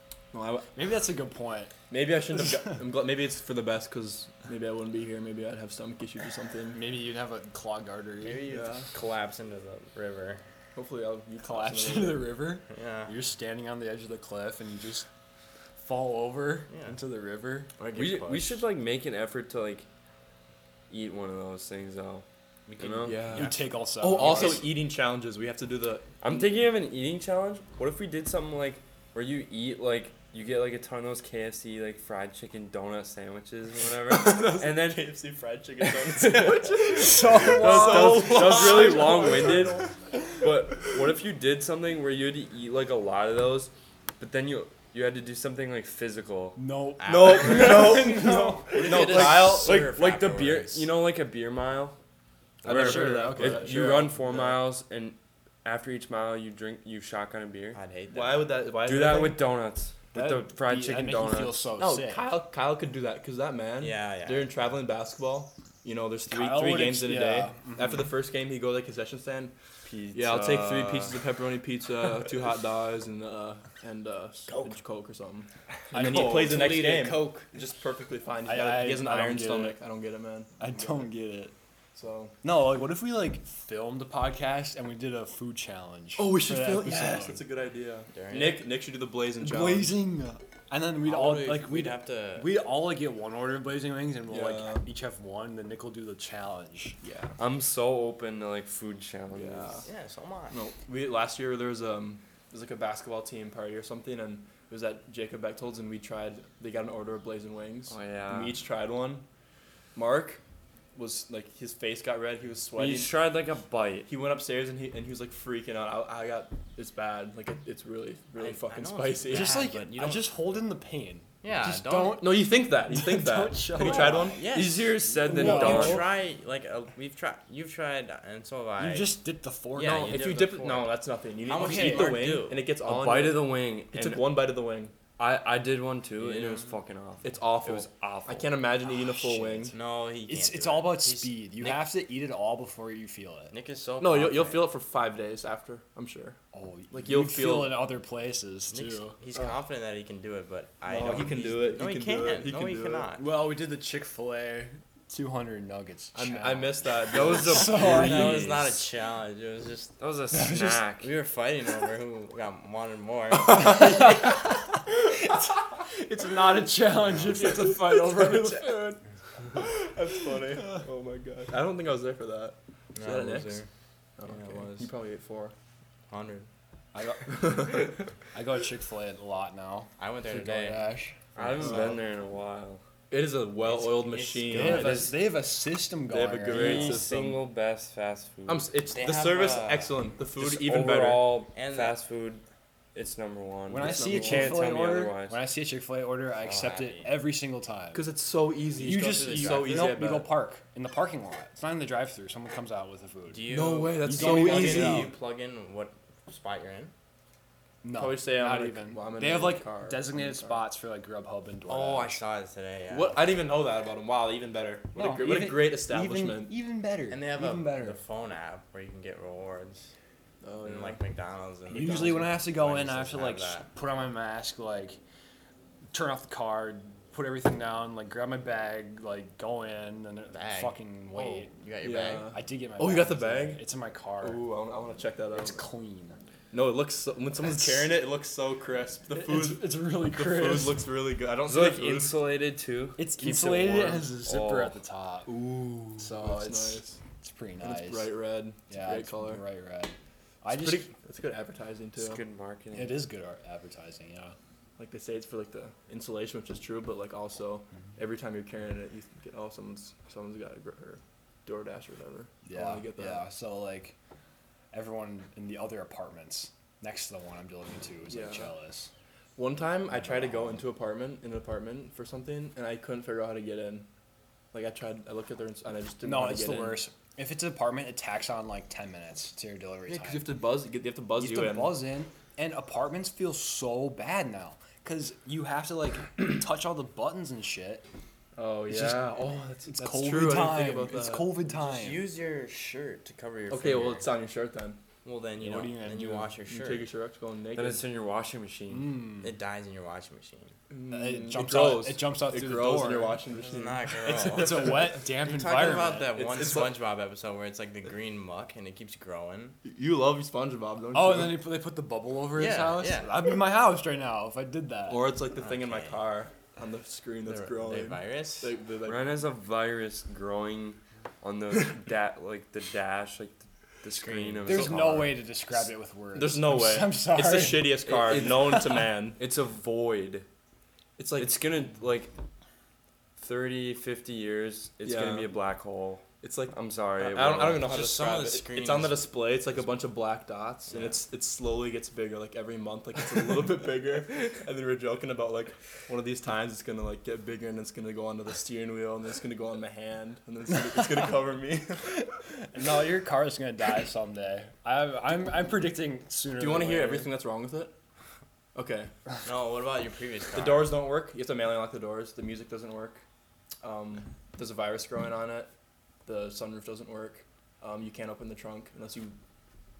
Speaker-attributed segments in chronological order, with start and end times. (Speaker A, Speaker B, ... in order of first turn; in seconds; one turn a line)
Speaker A: 0.3-0.7
Speaker B: 0.7-1.7
Speaker A: 1.9-6.8
Speaker B: 6.7-8.4
Speaker C: 8.2-10.4
Speaker A: 8.5-8.9
Speaker A: 10.8-12.5
Speaker B: 11.4-15.1
Speaker C: 12.7-13.1
Speaker B: 15.8-17.7
Speaker C: 16.7-17.0
Speaker C: 17.8-18.6
Speaker D: 17.9-19.9
Speaker D: 20.9-22.2
Speaker C: 22.7-23.6
Speaker D: 22.8-23.2
Speaker A: 23.0-26.5
Speaker B: 23.3-24.6
Speaker C: 24.2-24.7
Speaker D: 26.2-35.1
Speaker A: 34.1-39.9
Speaker D: 35.8-39.9
Speaker B: 36.9-39.9
Speaker D: 40.4-46.6
Speaker B: 46.6-49.0
Speaker C: 47.0-48.1
Speaker A: 47.0-49.9
Speaker C: 48.7-50.9
Speaker D: 48.9-52.0
Speaker D: 52.6-57.8
Speaker A: 52.6-54.6
Speaker B: 52.6-54.0
Speaker C: 57.7-58.5
Speaker A: 58.1-59.4
Speaker D: 58.9-61.7
Speaker B: 60.1-62.3
Speaker A: 61.8-69.5
Speaker C: 63.8-64.5
Speaker B: 66.3-68.1
Speaker D: 69.8-71.2
Speaker A: 70.1-81.0
Speaker C: 75.9-77.5
Speaker B: 78.5-79.8
Speaker B: 80.6-81.5
Speaker A: 82.0-82.4
Speaker B: 82.4-87.4
Speaker A: 86.2-90.0
Speaker C: 88.1-88.7
Speaker B: 89.4-97.0
Speaker C: 91.0-92.6
Speaker A: 94.3-94.8
Speaker A: 97.0-97.4
Speaker D: 97.4-99.8
Speaker A: 99.3-99.9
Speaker C: 99.8-100.6
Speaker A: 100.5-109.3
Speaker D: 107.9-108.6
Speaker A: 110.0-110.4
Speaker A: 111.0-113.1
Speaker D: 112.8-114.1
Speaker A: 114.1-119.7
Speaker C: 118.4-120.3
Speaker B: 119.3-124.4
Speaker C: 121.4-122.3
Speaker A: 122.2-124.5
Speaker C: 123.8-129.2
Speaker D: 124.5-126.0
Speaker B: 125.2-126.1
Speaker B: 128.8-130.2
Speaker C: 129.7-130.9
Speaker A: 129.9-134.9
Speaker C: 131.4-132.6
Speaker B: 131.6-132.2
Speaker D: 132.8-134.3
Speaker D: 135.2-138.6
Speaker C: 136.2-136.8
Speaker A: 137.2-139.8
Speaker C: 139.7-141.8
Speaker B: 140.3-143.5
Speaker C: 143.5-144.7
Speaker A: 144.0-146.4
Speaker B: 146.5-149.2
Speaker A: 146.9-147.8
Speaker C: 148.7-153.3
Speaker A: 150.9-153.1
Speaker B: 153.2-158.5
Speaker A: 156.1-158.3
Speaker D: 157.1-158.8
Speaker C: 157.6-160.0
Speaker D: 160.0-161.1
Speaker B: 160.3-160.8
Speaker C: 161.0-164.3
Speaker B: 163.6-169.0
Speaker A: 167.3-169.0
Speaker A: 169.5-173.6
Speaker B: 170.5-170.8
Speaker C: 172.9-173.7
Speaker A: 174.2-175.6
Speaker C: 174.3-174.9
Speaker C: 176.1-176.5
Speaker B: 176.9-181.2
Speaker A: 177.3-177.9
Speaker C: 180.0-181.9
Speaker D: 181.4-182.8
Speaker A: 181.6-182.0
Speaker A: 183.1-185.1
Speaker C: 183.6-185.1
Speaker B: 184.5-187.1
Speaker D: 184.6-185.2
Speaker A: 186.1-187.4
Speaker D: 186.5-188.7
Speaker A: 188.5-191.4
Speaker C: 188.9-190.0
Speaker D: 190.4-192.4
Speaker C: 191.5-192.0
Speaker D: 192.9-195.4
Speaker B: 193.7-198.1
Speaker A: 193.8-194.6
Speaker C: 196.4-197.1
Speaker A: 197.9-200.3
Speaker B: 198.8-203.5
Speaker C: 198.8-200.0
Speaker C: 203.3-206.9
Speaker A: 203.5-205.1
Speaker B: 204.0-205.1
Speaker B: 207.8-212.2
Speaker A: 207.9-210.6
Speaker C: 211.7-213.3
Speaker A: 212.9-216.5
Speaker B: 214.9-218.0
Speaker C: 217.1-219.9
Speaker A: 220.4-221.0
Speaker C: 220.6-223.7
Speaker B: 221.7-225.0
Speaker B: 225.9-231.5
Speaker C: 230.3-232.3
Speaker A: 231.8-233.6
Speaker B: 232.3-234.4
Speaker A: 234.2-235.7
Speaker B: 235.3-236.2
Speaker A: 236.5-242.2
Speaker B: 239.1-240.8
Speaker D: 241.5-244.8
Speaker B: 243.0-245.3
Speaker A: 245.3-247.0
Speaker B: 246.0-248.1
Speaker A: 247.6-249.4
Speaker B: 248.7-250.9
Speaker A: 250.5-252.2
Speaker D: 252.0-253.1
Speaker B: 252.7-254.3
Speaker A: 254.8-263.2
Speaker B: 262.4-263.9
Speaker B: 264.7-268.9
Speaker A: 268.1-268.5
Speaker A: 269.4-273.9
Speaker A: 274.5-276.8
Speaker B: 276.0-280.3
Speaker A: 279.9-281.8
Speaker B: 281.2-287.8
Speaker A: 288.4-291.4
Speaker B: 288.7-289.0
Speaker B: 289.7-292.0
Speaker C: 291.6-294.1
Speaker A: 293.5-294.8
Speaker C: 295.0-296.9
Speaker B: 295.4-296.3
Speaker A: 296.5-297.8
Speaker D: 297.6-299.0
Speaker B: 298.7-299.4
Speaker C: 299.2-300.6
Speaker A: 300.7-304.3
Speaker B: 300.9-303.2
Speaker C: 303.5-309.6
Speaker B: 304.0-306.1
Speaker A: 306.1-306.8
Speaker A: 309.6-311.4
Speaker B: 310.9-315.1
Speaker C: 312.4-313.1
Speaker A: 314.9-319.1
Speaker C: 315.4-316.0
Speaker C: 317.3-318.5
Speaker D: 318.9-325.2
Speaker C: 323.9-324.8
Speaker B: 324.5-327.8
Speaker A: 326.1-329.2
Speaker D: 327.9-330.3
Speaker A: 331.0-331.4
Speaker D: 331.2-332.1
Speaker D: 333.2-337.7
Speaker A: 334.8-335.3
Speaker A: 336.2-352.0
Speaker C: 337.4-339.1
Speaker C: 340.7-341.0
Speaker B: 352.5-357.1
Speaker A: 356.4-357.7
Speaker A: 358.6-358.9
Speaker C: 359.2-360.7
Speaker A: 360.3-363.0
Speaker A: 363.6-365.5
Speaker A: 366.1-369.2